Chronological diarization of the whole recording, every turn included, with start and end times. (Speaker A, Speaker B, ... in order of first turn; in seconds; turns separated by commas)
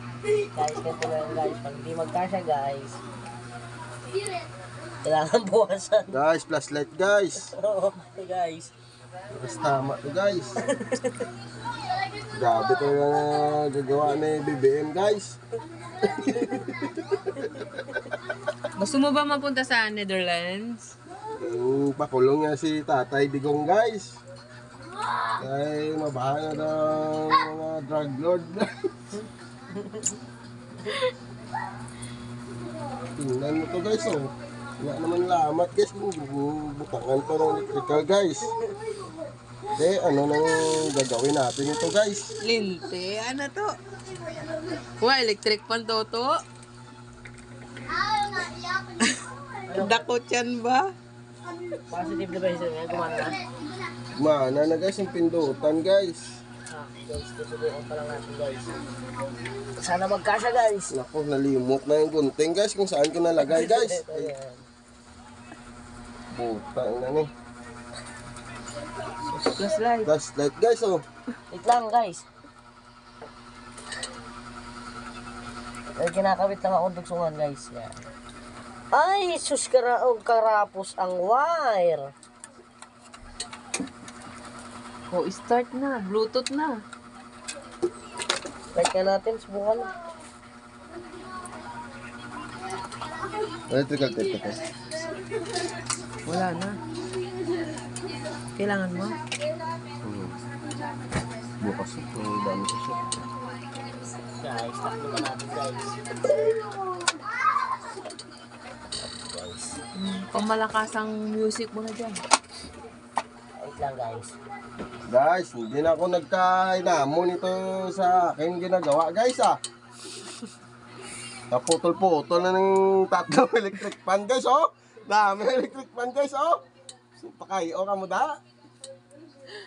Speaker A: 0.5-3.0, Speaker A: 5.0-6.1, Speaker B: 6.1-7.5, Speaker A: 7.5-8.7, Speaker B: 9.3-10.6, Speaker A: 10.7-11.2, Speaker B: 12.3-15.4, Speaker B: 16.0-18.2, Speaker C: 18.8-20.9, Speaker B: 21.4-24.2, Speaker B: 25.4-28.7, Speaker B: 33.2-38.5, Speaker B: 39.8-42.3, Speaker C: 42.4-43.8, Speaker C: 45.0-46.4, Speaker C: 49.0-50.9, Speaker A: 49.7-50.1, Speaker A: 51.9-53.4, Speaker B: 54.2-56.4, Speaker A: 56.7-58.8, Speaker A: 59.8-61.0, Speaker B: 60.9-64.3, Speaker A: 63.4-64.7, Speaker B: 66.3-67.3, Speaker C: 69.3-70.1, Speaker B: 70.0-71.0, Speaker A: 71.5-72.3, Speaker A: 76.0-78.0, Speaker A: 78.9-82.1, Speaker C: 85.1-86.8, Speaker A: 88.7-89.9, Speaker B: 93.7-94.6, Speaker C: 96.2-96.8, Speaker C: 98.6-99.2, Speaker B: 100.0-100.4, Speaker B: 101.6-103.0, Speaker A: 104.4-106.0, Speaker A: 109.2-109.8, Speaker C: 110.0-112.2, Speaker A: 113.6-114.4, Speaker B: 115.1-119.6, Speaker B: 121.5-126.6, Speaker B: 127.2-128.4